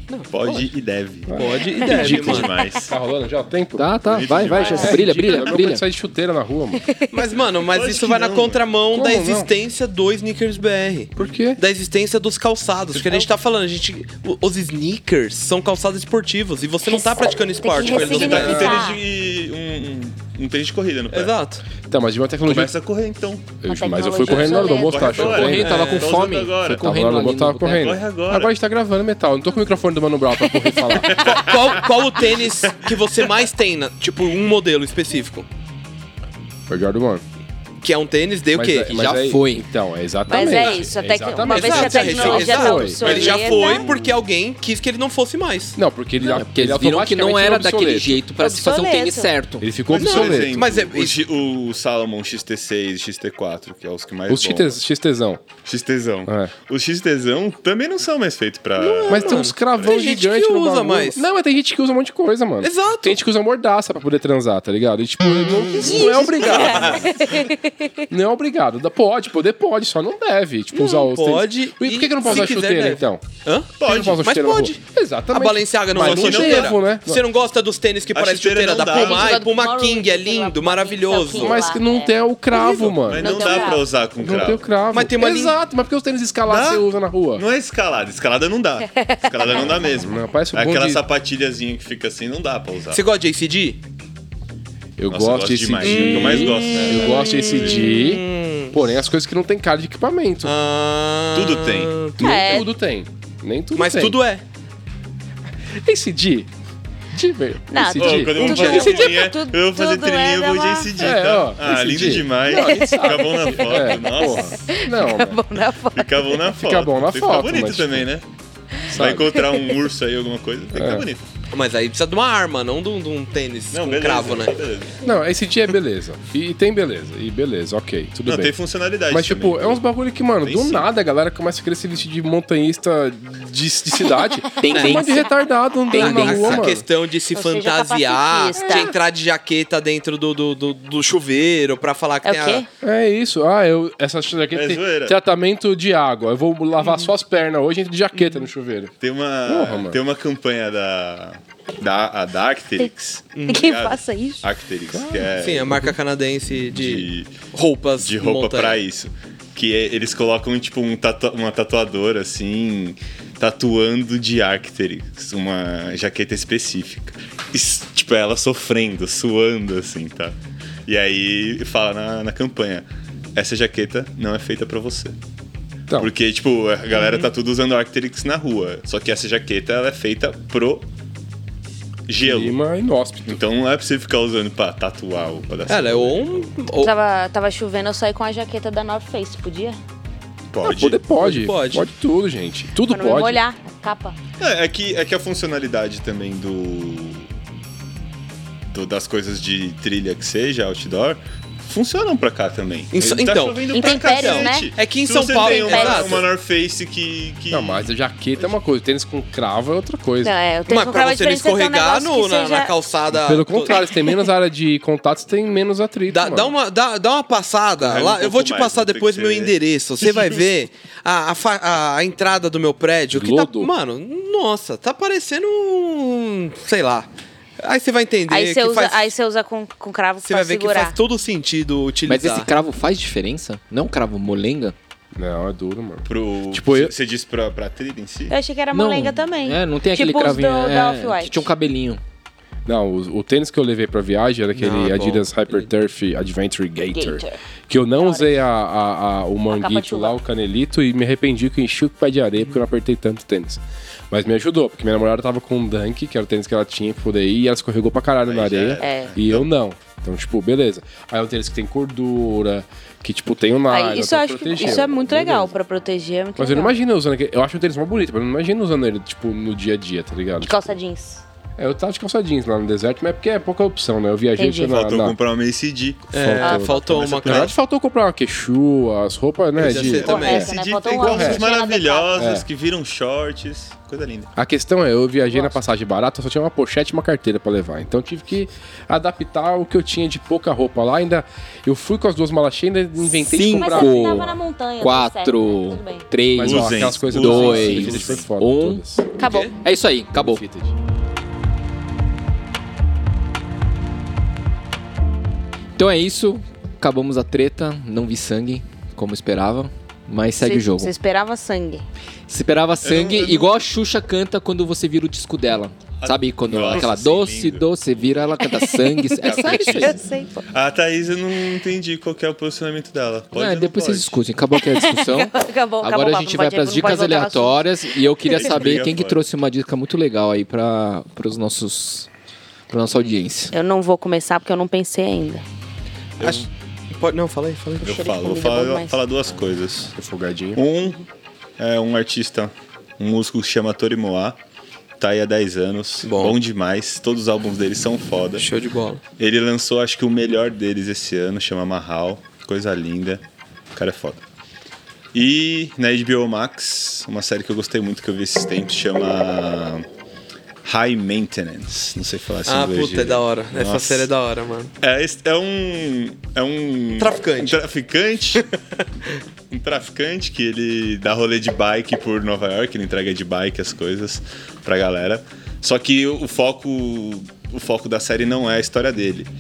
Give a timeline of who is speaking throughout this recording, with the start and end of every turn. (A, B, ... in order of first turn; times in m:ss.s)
0:00.1-0:00.6 A
0:00.3-0:03.0 B
0:01.3-0:03.9 C
0:01.4-0:02.5 A
0:03.8-0:05.8 D
0:04.1-0:05.0 B
0:04.7-0:06.9 C
0:06.9-0:07.1 E
0:07.1-0:18.8 A
0:07.6-0:08.6 B
0:08.9-0:09.5 C
0:11.2-0:11.6 C
0:16.9-0:19.0 E
0:17.9-0:21.3 B
0:21.1-0:21.6 A
0:21.9-0:22.7 C
0:22.4-0:23.6 B
0:23.6-0:31.3 C
0:23.7-0:25.5 E
0:24.2-0:27.2 B
0:25.2-0:27.9 D
0:27.7-0:28.5 B
0:31.1-0:31.7 B
0:31.2-0:35.5 A
0:36.7-0:37.2 C
0:37.8-0:39.2 A
0:38.5-0:43.3 C
0:38.9-0:39.7 D
0:40.3-0:43.9 E
0:41.4-0:45.8 A
0:43.0-0:44.2 B
0:45.8-0:48.2 C
0:46.2-0:49.7 D
0:48.4-0:49.3 E
0:49.6-0:50.7 C
0:49.9-0:54.8 B
0:50.0-0:51.2 A
0:54.3-0:55.4 C
0:55.6-1:00.0 B
0:56.3-0:56.5 C
0:58.8-1:01.2 A
0:59.1-1:07.1 C
1:02.6-1:03.2 A
1:05.8-1:07.3 A
1:05.9-1:07.9 E
1:06.8-1:07.0 B
1:08.1-1:13.2 C
1:10.7-1:14.8 A
1:13.8-1:14.2 B
1:13.8-1:17.2 C
1:15.3-1:21.7 A
1:16.0-1:16.8 B
1:18.1-1:19.4 B
1:18.9-1:22.1 E
1:21.4-1:27.4 C
1:22.5-1:22.9 A
1:22.8-1:24.7 B
1:23.2-1:23.9 E
1:24.9-1:25.6 A
1:26.5-1:33.0 B
1:29.0-1:29.8 E
1:29.9-1:31.0 C
1:32.9-1:33.8 A
1:35.0-1:40.5 C
1:35.1-1:37.9 B
1:35.8-1:38.9 A
1:40.4-1:42.6 A
1:41.3-1:42.1 B
1:42.2-1:42.7 E
1:42.2-1:44.2 C
1:43.7-1:44.4 A
1:45.8-1:46.5 C
1:47.1-1:48.9 C
1:47.7-1:51.1 E
1:48.0-1:54.7 B
1:48.4-1:49.1 A
1:51.0-1:55.4 C
1:52.5-1:56.4 E
1:55.9-1:58.3 B
1:56.5-1:58.1 C
1:58.9-1:59.4 C
1:58.9-2:01.3 B
2:00.7-2:01.1 C
2:01.5-2:04.6 A
2:03.7-2:05.0 B
2:05.0-2:08.6 C
2:08.3-2:09.8 B
2:09.1-2:16.8 C
2:10.4-2:10.9 B
2:14.6-2:15.3 D
2:14.8-2:15.1 A
2:15.9-2:16.7 D
2:15.9-2:22.6 A
2:17.4-2:19.0 E
2:18.5-2:18.9 C
2:22.2-2:22.7 E
2:22.8-2:28.9 C
2:24.5-2:25.2 B
2:26.8-2:27.1 A
2:28.2-2:28.5 A
2:29.0-2:35.9 B
2:29.4-2:30.0 C
2:33.3-2:33.7 A
2:33.4-2:34.5 E
2:34.9-2:35.3 C
2:35.4-2:38.8 A
2:36.7-2:37.4 B
2:38.0-2:55.2 B
2:56.0-3:00.9 B
3:02.1-3:02.6 B
3:02.2-3:03.4 C
3:03.3-3:06.6 B
3:05.7-3:06.9 A
3:06.8-3:09.8 E
3:10.5-3:11.0 B
3:10.6-3:13.4 C
3:11.2-3:11.9 A
3:12.9-3:14.2 E
3:14.4-3:17.3 B
3:18.6-3:27.9 B
3:22.9-3:26.3 A
3:23.7-3:24.7 E
3:25.3-3:26.2 E
3:27.5-3:30.3 C
3:30.2-3:32.7 E
3:30.7-3:33.8 A
3:33.1-3:36.5 C
3:36.1-3:49.1 A
3:37.8-3:40.4 B
3:43.1-3:43.7 C
3:48.3-3:51.0 E
3:50.2-3:52.5 A
3:52.1-3:54.8 D
3:55.2-3:56.9 C
3:56.1-3:58.4 B
3:58.3-4:01.5 E
3:58.7-4:02.0 D
4:02.7-4:25.5 C
4:04.6-4:05.6 A
4:06.9-4:07.4 E
4:08.0-4:08.4 E
4:09.5-4:10.2 E
4:18.3-4:19.5 B
4:18.8-4:19.2 E
4:23.7-4:26.8 E
4:26.4-4:30.7 C
4:30.4-4:31.2 E
4:31.6-4:35.2 C
4:34.4-4:34.7 E
4:34.7-4:37.5 B
4:36.1-4:37.5 A
4:36.1-4:40.5 C
4:36.4-4:36.8 E
4:39.6-4:41.2 A
4:39.6-4:44.3 B
4:40.0-4:42.2 E
4:41.0-4:41.4 C
4:42.2-4:42.5 C
4:44.4-4:54.2 C
4:53.2-4:58.8 D
4:53.5-4:56.1 E
4:56.4-4:59.1 C
4:56.4-4:58.2 B
4:59.2-4:59.5 E
4:59.2-4:59.5 A
4:59.6-5:00.4 D
5:00.1-5:00.7 C
5:05.8-5:10.9 D
5:10.4-5:11.8 E
5:12.3-5:20.0 D
5:12.8-5:13.5 B
5:16.0-5:17.7 B
5:18.4-5:20.4 E
5:19.2-5:24.2 B
5:23.3-5:32.1 D
5:24.6-5:28.6 E
5:28.3-5:29.2 B
5:32.7-5:33.6 D
5:33.5-5:35.4 E
5:36.2-5:36.5 B
5:36.2-5:38.0 A
5:37.8-5:39.0 E
5:37.8-5:40.0 B
5:40.0-5:40.6 C
5:40.6-5:41.0 B
5:41.6-5:44.4 B
5:45.0-5:48.5 B
5:46.0-5:46.4 A
5:48.4-5:49.0 A
5:49.2-5:53.2 B
5:53.7-5:54.2 B
5:55.1-5:59.9 B
6:00.6-6:04.1 B
6:02.4-6:04.7 A
6:04.8-6:08.5 B
6:07.0-6:07.6 A
6:09.5-6:19.3 B